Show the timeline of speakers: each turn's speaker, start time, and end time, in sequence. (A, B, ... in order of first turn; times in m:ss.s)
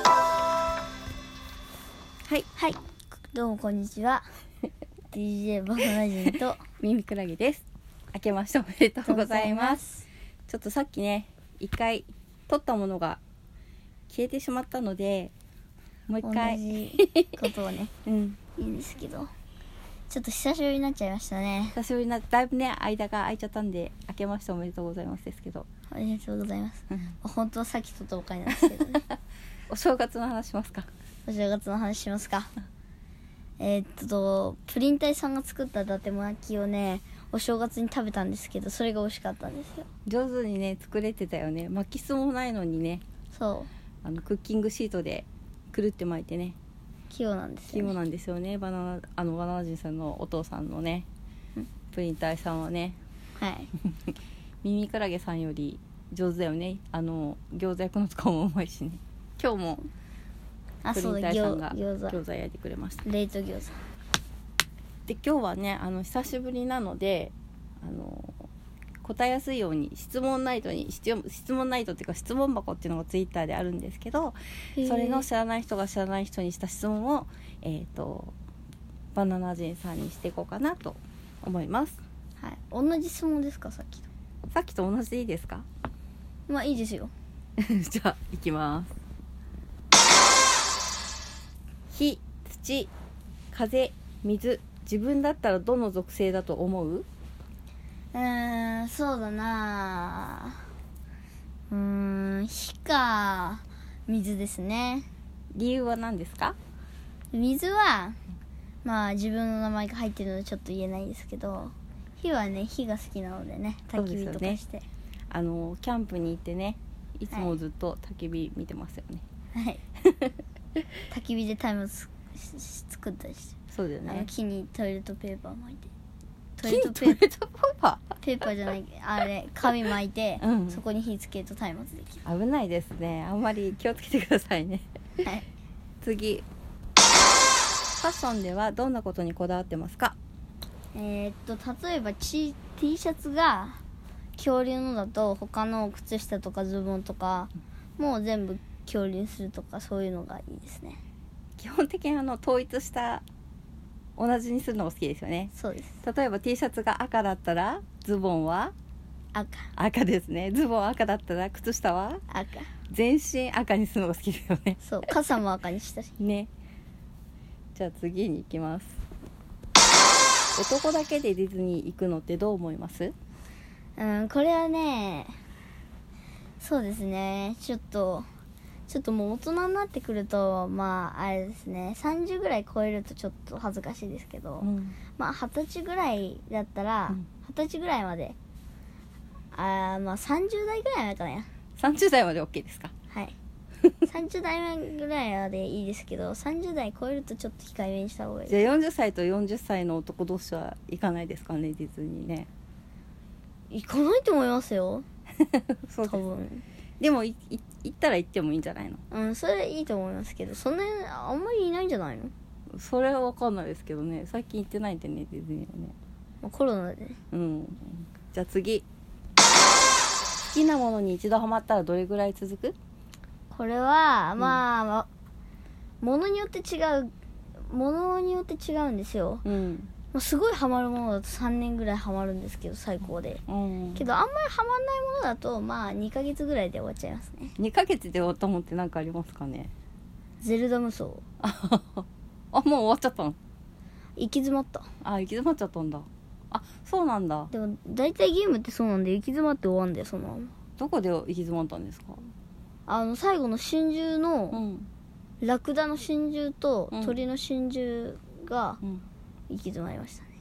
0:02.5-0:02.8 A
0:03.3-0:04.2 A
0:05.1-0:06.6 A
0:06.8-0:09.9 B
0:09.0-0:10.0 A
0:10.5-0:13.2 B
0:14.1-0:15.3 B
0:16.1-0:17.4 B
0:16.2-0:17.9 A
0:18.0-0:18.4 B
0:18.6-0:19.3 A
0:20.1-0:21.8 A
0:21.7-0:25.7 B
0:25.9-0:29.0 A
0:29.7-0:30.9 B
0:31.2-0:32.5 A
0:33.6-0:39.9 A
0:40.0-0:43.0 B
0:43.3-0:43.7 A
0:44.0-0:46.6 B
0:47.1-0:47.9 A
0:47.7-0:51.1 B
0:51.9-0:53.0 B
0:53.4-0:53.7 A
0:54.6-0:59.8 B
1:00.8-1:02.2 A
1:00.9-1:03.0 B
1:03.0-1:03.8 A
1:05.0-1:08.5 B
1:09.0-1:18.3 B
1:14.7-1:15.2 A
1:19.1-1:22.0 B
1:22.4-1:24.1 A
1:24.5-1:25.6 B
1:26.5-1:27.1 A
1:27.6-1:28.9 B
1:31.9-1:32.9 B
1:33.5-1:37.0 B
1:38.1-1:40.6 A
1:41.7-1:45.1 A
1:45.5-1:46.6 B
1:47.3-1:48.2 A
1:48.8-1:54.8 A
1:53.9-1:54.6 B
1:55.3-1:59.2 B
1:59.5-1:59.8 A
2:00.0-2:00.3 B
2:01.1-2:05.9 A
2:03.7-2:04.3 B
2:06.6-2:07.2 A
2:06.6-2:08.2 B
2:08.2-2:12.2 A
2:10.4-2:10.8 B
2:12.2-2:14.9 B
2:16.0-2:16.5 B
2:18.0-2:20.2 B
2:20.9-2:23.8 A
2:24.4-2:31.0 A
2:31.6-2:33.2 B
2:34.2-2:38.7 B
2:35.5-2:36.0 A
2:39.3-2:39.7 A
2:39.8-2:42.2 B
2:42.3-2:42.7 A
2:42.9-2:44.8 B
2:44.8-2:46.2 A
2:46.2-2:46.5 B
2:47.7-2:49.0 B
2:50.5-2:53.1 B
2:54.0-2:55.4 A
2:56.6-2:58.3 A
2:58.9-3:08.4 A
3:04.6-3:05.0 B
3:09.5-3:11.5 A
3:11.8-3:12.9 B
3:13.1-3:13.4 A
3:14.0-3:18.6 A
3:18.5-3:22.5 B
3:23.7-3:25.0 A
3:25.5-3:26.2 B
3:26.0-3:26.6 A
3:27.0-3:29.0 B
3:29.1-3:32.3 A
3:32.7-3:35.9 B
3:36.4-3:37.2 A
3:37.3-3:38.8 B
3:40.5-3:42.8 B
3:43.5-3:45.1 A
3:46.0-3:47.1 A
3:47.6-3:49.4 A
3:49.4-3:49.9 B
3:50.1-3:53.4 A
3:53.5-3:54.0 B
3:53.9-3:57.5 A
3:57.6-3:59.7 B
4:00.4-4:01.2 A
4:01.4-4:03.4 B
4:04.2-4:04.9 A
4:05.0-4:07.5 B
4:07.5-4:10.5 A
4:10.8-4:12.3 B
4:12.9-4:14.6 A
4:14.5-4:14.9 B
4:15.4-4:18.8 A
4:16.9-4:17.2 B
4:19.5-4:20.3 A